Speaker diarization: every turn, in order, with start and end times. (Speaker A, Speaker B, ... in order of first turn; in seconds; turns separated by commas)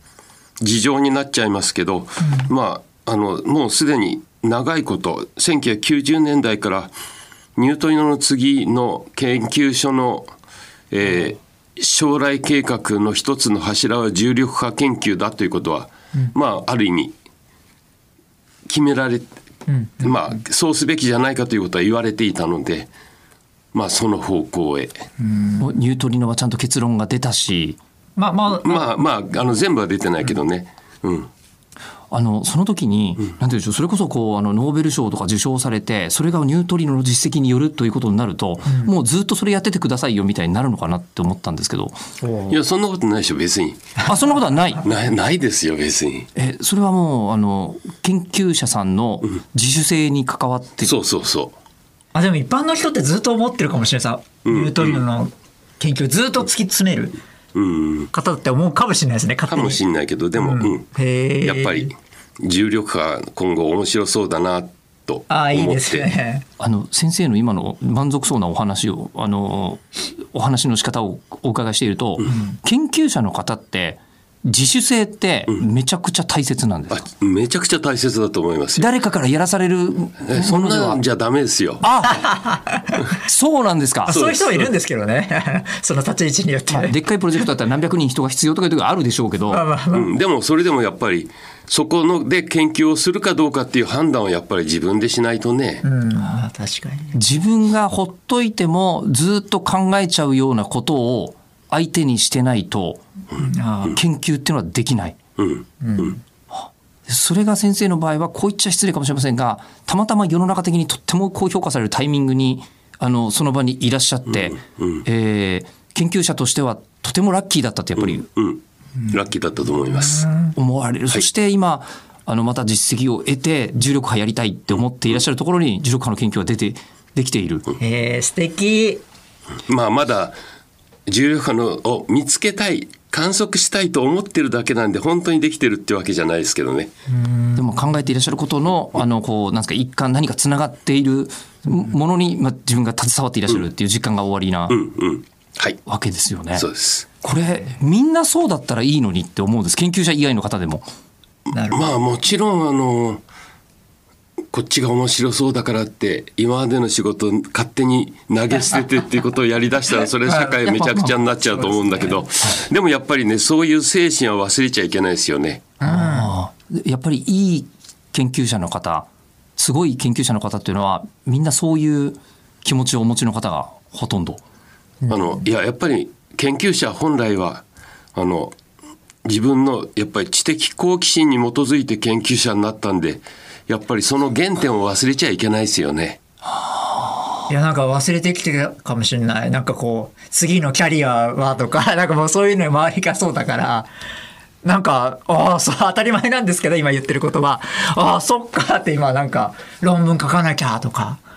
Speaker A: 0.6-6.9, Speaker A: 7.5-10.3, Speaker A: 10.9-17.1, Speaker A: 18.6-19.3, Speaker B: 19.7-20.1, Speaker A: 20.0-22.9, Speaker A: 23.7-25.0, Speaker B: 25.2-25.6, Speaker C: 25.6-27.8, Speaker B: 28.2-28.9, Speaker A: 28.6-31.3, Speaker C: 32.1-41.9, Speaker B: 42.2-42.6, Speaker A: 42.5-43.9, Speaker C: 44.0-44.8, Speaker A: 44.8-46.3, Speaker C: 46.3-50.9, Speaker A: 50.8-51.5, Speaker B: 52.1-57.2, Speaker A: 54.5-55.0, Speaker A: 57.5-58.1, Speaker B: 58.1-59.8, Speaker A: 59.5-60.9, Speaker B: 60.4-61.9, Speaker A: 61.4-66.1, Speaker B: 65.3-66.4, Speaker C: 66.6-77.0, Speaker B: 72.3-72.5, Speaker A: 76.9-78.9, Speaker C: 78.8-81.0, Speaker A: 80.2-81.8, Speaker C: 81.8-82.2, Speaker B: 82.0-83.0, Speaker C: 83.2-84.1, Speaker B: 84.1-86.9, Speaker A: 84.1-84.7, Speaker C: 86.7-89.6, Speaker B: 89.5-90.1, Speaker A: 89.9-95.8, Speaker B: 95.8-97.1, Speaker C: 97.1-103.0, Speaker B: 103.4-104.0, Speaker C: 103.9-105.2, Speaker A: 105.4-106.0, Speaker B: 105.8-106.2, Speaker C: 106.5-118.2, Speaker A: 114.8-115.0, Speaker A: 118.0-120.3, Speaker B: 120.0-120.5, Speaker C: 120.5-127.7, Speaker B: 127.8-129.0, Speaker A: 129.7-130.4, Speaker A: 131.1-136.9, Speaker B: 137.1-137.6, Speaker C: 137.6-144.8, Speaker A: 144.7-145.8, Speaker C: 145.8-146.7, Speaker A: 146.5-147.1, Speaker C: 147.2-150.8, Speaker B: 151.5-151.9, Speaker A: 151.7-153.2, Speaker A: 154.5-165.7, Speaker B: 160.3-160.6, Speaker C: 160.6-161.1, Speaker B: 161.6-162.1, Speaker B: 165.8-166.3, Speaker C: 165.8-174.4, Speaker A: 175.1-177.6, Speaker A: 178.1-178.5, Speaker A: 179.2-186.2, Speaker B: 187.5-193.9, Speaker B: 194.6-201.2